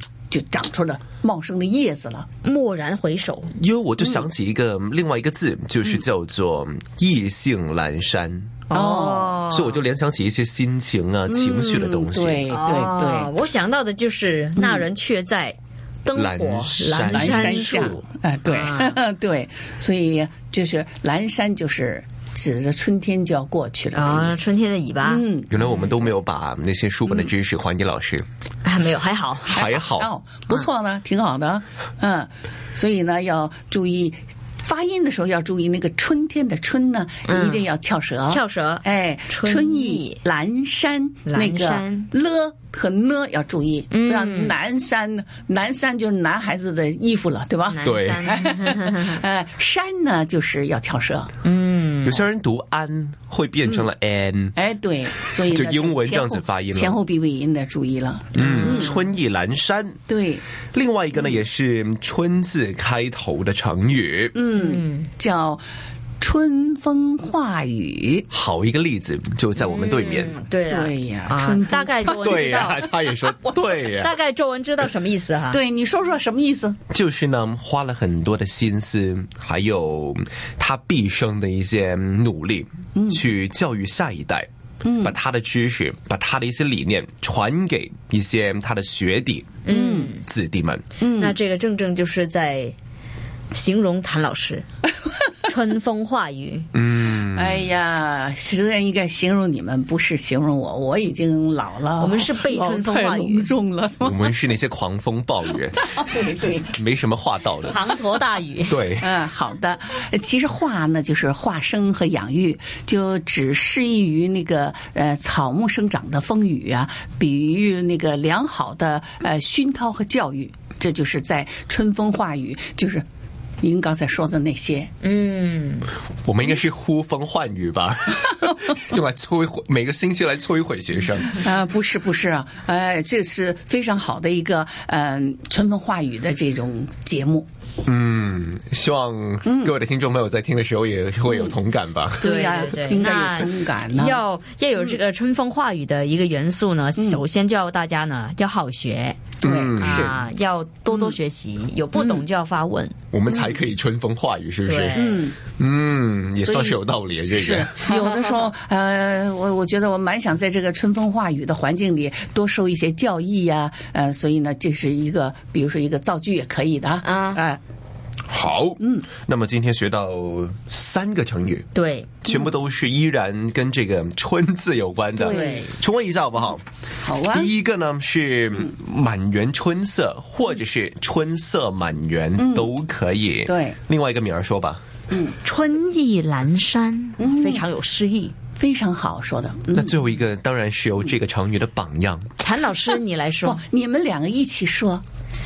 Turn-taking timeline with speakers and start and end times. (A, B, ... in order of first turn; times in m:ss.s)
0:00.3-0:02.3 A
0:02.4-0:03.6 B
0:03.5-0:08.6 C
0:04.0-0:04.3 A
0:08.7-0:09.3 A
0:08.7-0:09.8 B
0:09.5-0:12.5 C
0:11.3-0:13.3 A
0:12.5-0:19.0 B
0:14.6-0:14.9 A
0:16.1-0:18.0 C
0:17.1-0:25.6 A
0:23.9-0:25.3 B
0:25.5-0:28.2 C
0:28.6-0:29.6 B
0:29.4-0:30.1 C
0:29.5-0:51.3 A
0:37.2-0:37.7 B
0:38.3-0:40.2 B
0:41.2-0:42.1 B
0:43.9-0:44.5 B
0:47.7-0:49.2 B
0:47.8-0:48.3 C
0:51.4-0:52.2 B
0:52.0-0:54.6 C
0:53.6-0:53.9 A
0:54.5-0:59.0 A
0:55.4-0:57.0 C
0:58.3-1:00.0 C
0:58.4-0:59.0 B
1:00.1-1:00.4 A
1:00.7-1:04.4 C
1:04.3-1:05.6 A
1:04.6-1:05.1 B
1:06.2-1:08.3 A
1:08.3-1:10.4 C
1:09.6-1:12.9 B
1:10.7-1:12.4 A
1:12.0-1:14.1 C
1:13.8-1:15.6 B
1:15.5-1:16.8 A
1:16.9-1:24.5 C
1:22.9-1:23.2 A
1:24.8-1:25.2 A
1:25.0-1:29.6 C
1:29.6-1:30.2 B
1:29.7-1:30.1 A
1:30.2-1:30.8 C
1:31.0-1:31.4 A
1:31.1-1:32.7 B
1:33.5-1:34.6 B
1:35.4-1:36.7 B
1:36.7-1:37.7 C
1:37.2-1:44.3 A
1:42.0-1:43.5 B
1:44.0-1:46.0 C
1:45.8-1:46.8 A
1:46.7-1:47.8 C
1:47.6-1:48.9 B
1:48.7-1:49.1 C
1:49.0-2:03.0 A
2:03.6-2:04.9 A
2:05.0-2:05.9 B
2:06.2-2:11.4 C
2:11.3-2:17.5 A
2:17.8-2:22.3 C
2:19.4-2:19.7 A
2:21.3-2:21.6 A
2:22.2-2:24.2 A
2:22.2-2:32.9 B
2:27.0-2:27.2 A
2:29.4-2:30.1 A
2:29.4-2:30.2 C
2:31.9-2:32.2 A
2:33.1-2:37.8 C
2:33.3-2:33.6 A
2:34.6-2:35.2 B
2:34.9-2:35.4 A
2:36.4-2:47.6 A
2:47.0-2:47.4 B
2:48.3-2:51.6 C
2:48.8-2:49.1 A
2:51.7-2:52.2 B
2:52.2-2:56.6 C
2:55.1-2:55.7 A
2:55.2-2:55.8 B
2:57.0-2:57.5 A
2:57.3-3:04.8 C
3:02.4-3:02.7 A
3:03.4-3:03.8 A
3:05.1-3:05.4 A
3:05.4-3:08.3 B
3:07.2-3:07.6 A
3:08.6-3:10.0 A
3:09.7-3:12.3 C
3:12.4-3:13.6 B
3:13.4-3:15.0 A